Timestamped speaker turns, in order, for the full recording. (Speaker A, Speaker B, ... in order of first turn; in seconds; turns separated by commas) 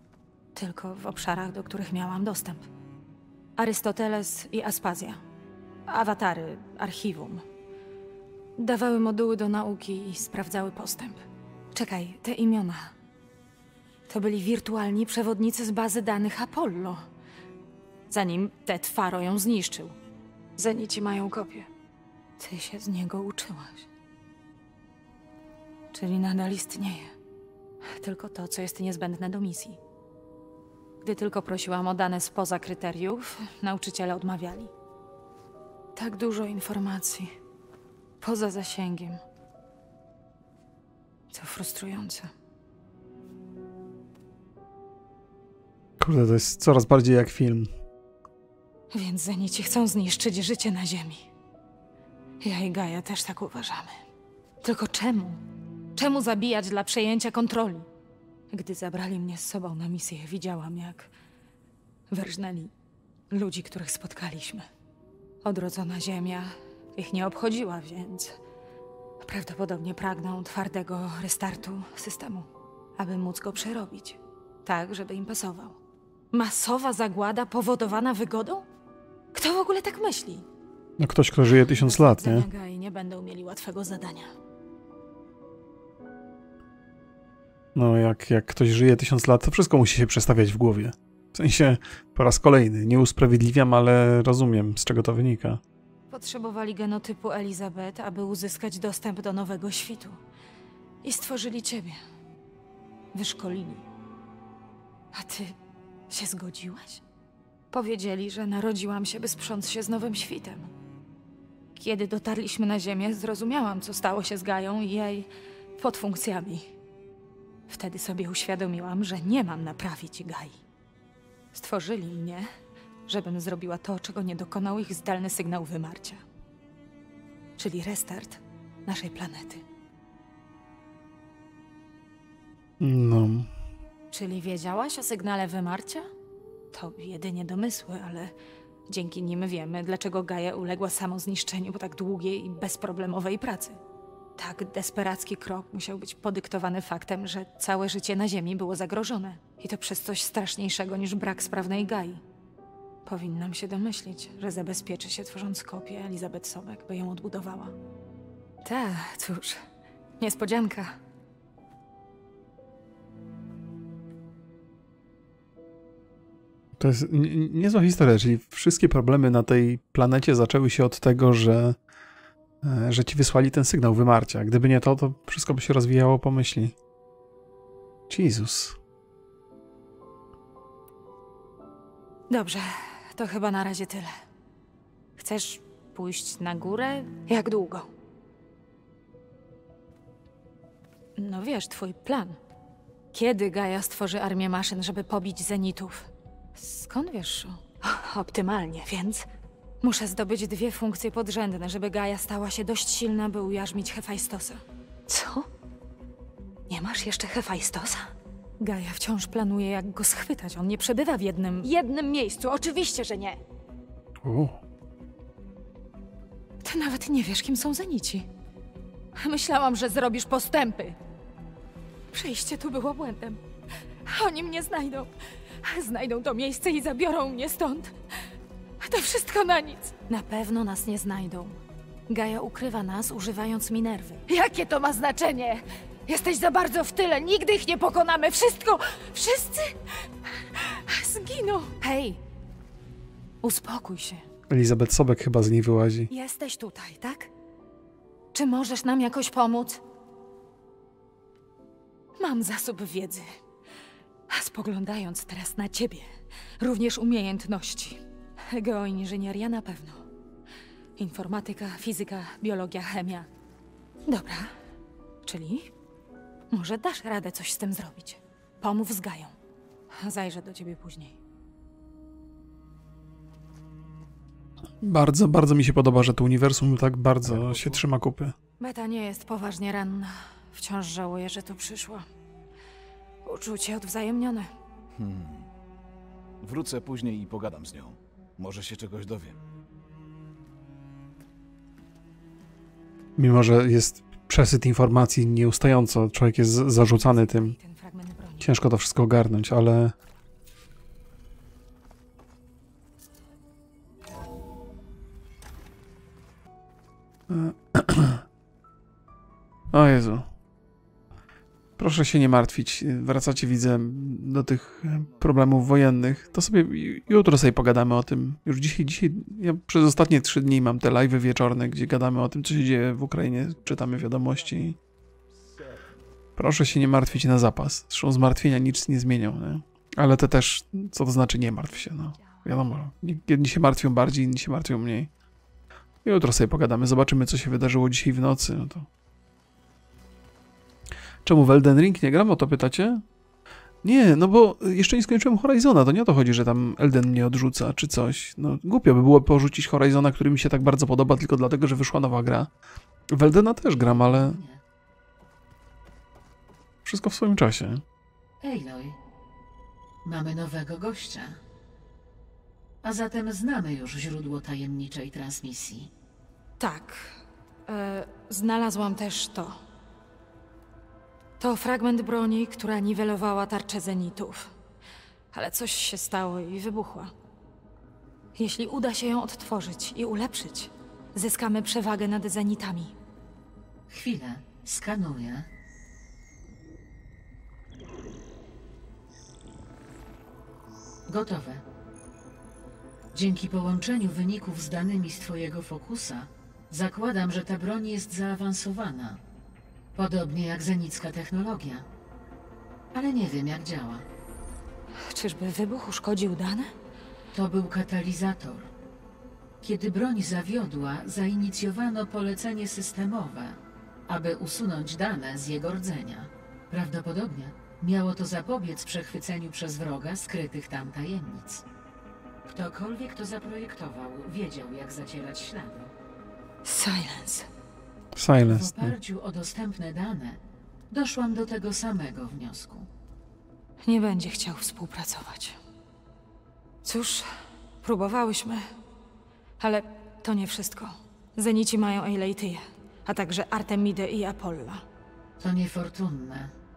Speaker A: 0.6-2.7, Speaker A: 3.6-5.2, Speaker A: 5.9-7.5, Speaker A: 8.6-11.2, Speaker A: 11.7-12.9, Speaker A: 14.1-17.0, Speaker A: 18.1-20.0, Speaker A: 20.6-21.7, Speaker A: 22.4-23.9, Speaker A: 25.9-27.1, Speaker A: 27.8-29.8, Speaker A: 31.0-34.7, Speaker A: 36.0-37.4, Speaker A: 38.2-39.2, Speaker A: 41.3-42.3, Speaker B: 46.0-47.7, Speaker A: 48.9-51.3, Speaker A: 52.4-54.0, Speaker A: 54.6-55.4, Speaker A: 56.0-57.9, Speaker A: 58.5-61.1, Speaker A: 62.1-62.7, Speaker A: 63.3-64.7, Speaker A: 65.4-68.4, Speaker A: 69.2-75.8, Speaker A: 76.3-78.7, Speaker A: 79.3-80.5, Speaker B: 81.0-82.5, Speaker A: 81.5-84.3, Speaker B: 87.8-95.6, Speaker A: 96.1-100.2, Speaker A: 101.0-102.0, Speaker A: 103.1-103.8, Speaker A: 105.1-105.6, Speaker A: 106.1-107.0, Speaker A: 107.7-110.7, Speaker A: 111.8-116.7, Speaker A: 117.7-120.6, Speaker A: 121.5-122.5, Speaker A: 123.1-126.2, Speaker A: 127.6-129.6, Speaker B: 132.8-133.5, Speaker A: 134.1-136.1, Speaker A: 136.7-138.3, Speaker A: 138.9-143.8, Speaker A: 144.4-152.2, Speaker A: 153.1-157.8, Speaker A: 158.6-159.6, Speaker A: 160.2-161.0, Speaker B: 166.8-171.8, Speaker B: 172.6-176.8, Speaker B: 178.1-178.8, Speaker A: 182.3-184.1, Speaker A: 185.2-187.9, Speaker A: 191.2-192.4, Speaker A: 193.1-199.3, Speaker A: 199.8-205.5, Speaker A: 206.7-213.4, Speaker B: 214.2-214.6, Speaker A: 216.6-218.3, Speaker A: 219.2-221.0, Speaker A: 222.1-223.4, Speaker A: 224.1-225.1, Speaker A: 225.6-228.0, Speaker A: 228.8-242.2, Speaker A: 243.4-244.2, Speaker B: 244.5-246.1, Speaker A: 246.1-247.3, Speaker A: 248.3-249.8, Speaker A: 252.2-253.3, Speaker A: 254.3-260.0, Speaker A: 261.0-263.3, Speaker A: 264.1-264.5, Speaker A: 265.2-265.7, Speaker A: 266.5-269.4, Speaker A: 269.9-271.2, Speaker B: 274.8-278.3, Speaker C: 277.2-277.8, Speaker A: 278.6-282.1, Speaker A: 283.2-284.5, Speaker C: 284.9-285.5, Speaker C: 286.4-289.4, Speaker B: 293.2-297.6, Speaker A: 296.8-298.6, Speaker B: 298.4-299.9, Speaker B: 307.3-308.2, Speaker B: 309.7-310.3, Speaker B: 311.8-324.8, Speaker B: 326.4-335.1, Speaker B: 336.0-338.9, Speaker B: 341.2-343.0, Speaker B: 343.8-352.5, Speaker B: 353.1-354.4, Speaker D: 353.6-354.6, Speaker B: 356.8-357.8, Speaker D: 358.4-359.0, Speaker D: 360.0-361.4, Speaker D: 362.8-365.9, Speaker A: 366.6-369.6, Speaker A: 371.4-374.5, Speaker A: 375.3-377.1, Speaker A: 378.4-382.9, Speaker D: 383.9-385.5, Speaker D: 391.1-391.6, Speaker D: 393.1-399.2, Speaker D: 400.0-401.8, Speaker D: 402.9-404.0, Speaker A: 405.0-406.7, Speaker D: 407.3-408.7, Speaker D: 409.6-421.6, Speaker D: 422.5-425.9, Speaker A: 426.6-427.5, Speaker B: 428.1-429.0, Speaker D: 428.4-430.4, Speaker D: 430.9-432.9, Speaker A: 433.8-435.6, Speaker A: 436.8-437.3, Speaker A: 437.8-438.7, Speaker A: 439.6-444.8, Speaker D: 445.4-446.5